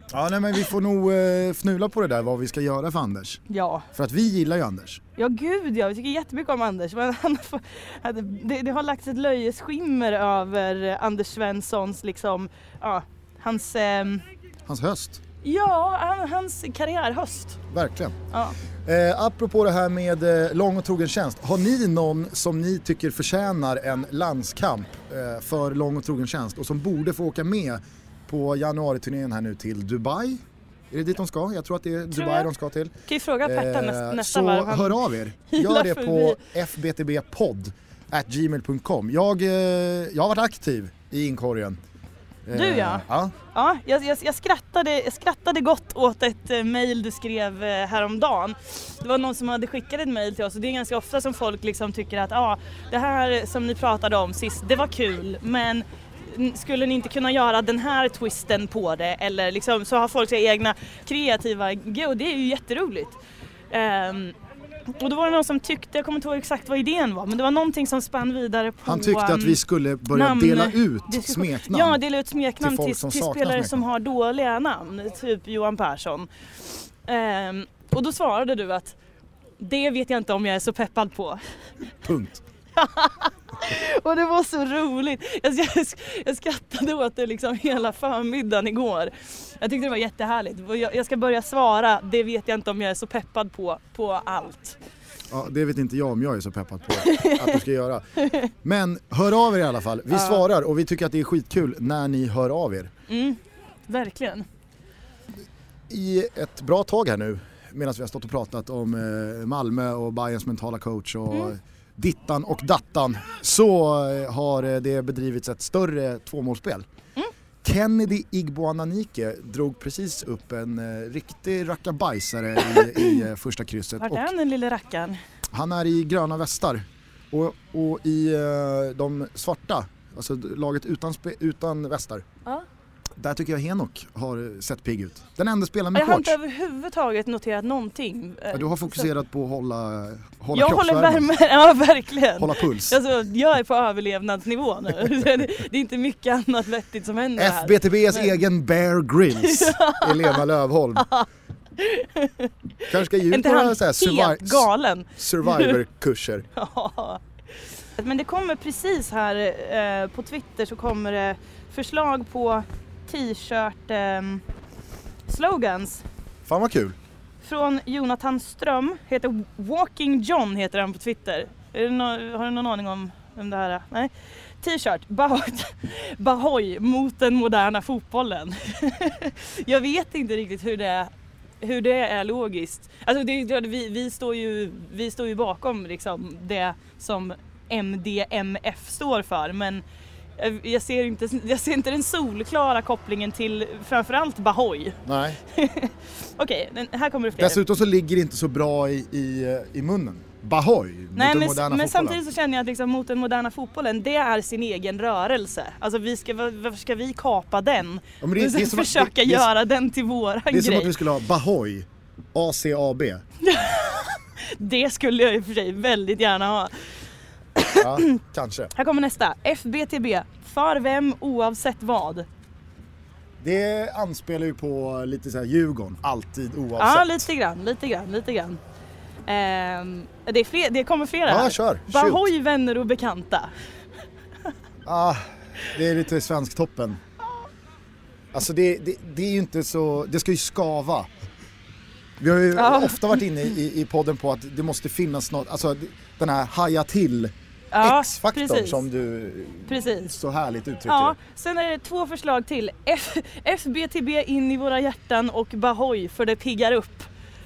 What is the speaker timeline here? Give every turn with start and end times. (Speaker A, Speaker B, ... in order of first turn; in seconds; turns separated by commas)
Speaker A: 0.1-3.4, Speaker B: 3.5-3.9, Speaker A: 3.9-5.0, Speaker B: 5.2-14.2, Speaker A: 14.7-15.2, Speaker B: 15.4-17.6, Speaker A: 17.7-18.2, Speaker A: 18.9-41.8, Speaker B: 32.2-32.5, Speaker B: 33.1-36.4, Speaker A: 42.5-43.3, Speaker B: 42.5-63.2, Speaker B: 63.7-64.4, Speaker B: 64.9-69.6, Speaker A: 68.8-72.0, Speaker B: 70.1-76.3, Speaker A: 72.6-73.8, Speaker B: 77.0-79.0, Speaker B: 79.6-81.5, Speaker A: 82.0-82.5, Speaker B: 82.8-94.8, Speaker A: 95.3-102.9, Speaker B: 97.0-97.5, Speaker B: 98.2-98.5, Speaker B: 100.1-100.4, Speaker B: 103.1-104.5, Speaker A: 105.9-116.9, Speaker A: 117.6-124.3, Speaker B: 122.7-123.2, Speaker B: 124.0-125.2, Speaker A: 125.5-132.2, Speaker A: 133.2-136.4, Speaker B: 135.9-139.1, Speaker A: 138.5-141.3, Speaker B: 140.5-148.3, Speaker A: 142.4-143.0, Speaker A: 147.4-151.1, Speaker B: 149.4-150.4, Speaker B: 151.8-152.5, Speaker A: 152.9-156.5, Speaker B: 153.1-155.8, Speaker B: 156.5-157.2, Speaker B: 158.0-164.4, Speaker B: 165.3-166.0, Speaker A: 166.5-167.0, Speaker B: 167.4-189.8, Speaker B: 190.4-197.6, Speaker A: 195.1-195.4, Speaker A: 197.4-202.2, Speaker B: 201.2-210.9, Speaker A: 208.2-209.5, Speaker A: 210.5-213.2, Speaker B: 213.4-216.9, Speaker B: 217.6-218.2, Speaker A: 217.7-218.7, Speaker B: 218.7-222.3, Speaker A: 223.4-227.3, Speaker B: 226.8-228.6, Speaker B: 229.3-233.5, Speaker A: 231.3-232.3, Speaker A: 234.8-237.0, Speaker A: 238.3-241.1, Speaker A: 242.2-251.2, Speaker B: 242.6-243.2, Speaker B: 247.7-248.8, Speaker B: 249.7-250.1, Speaker B: 250.9-257.1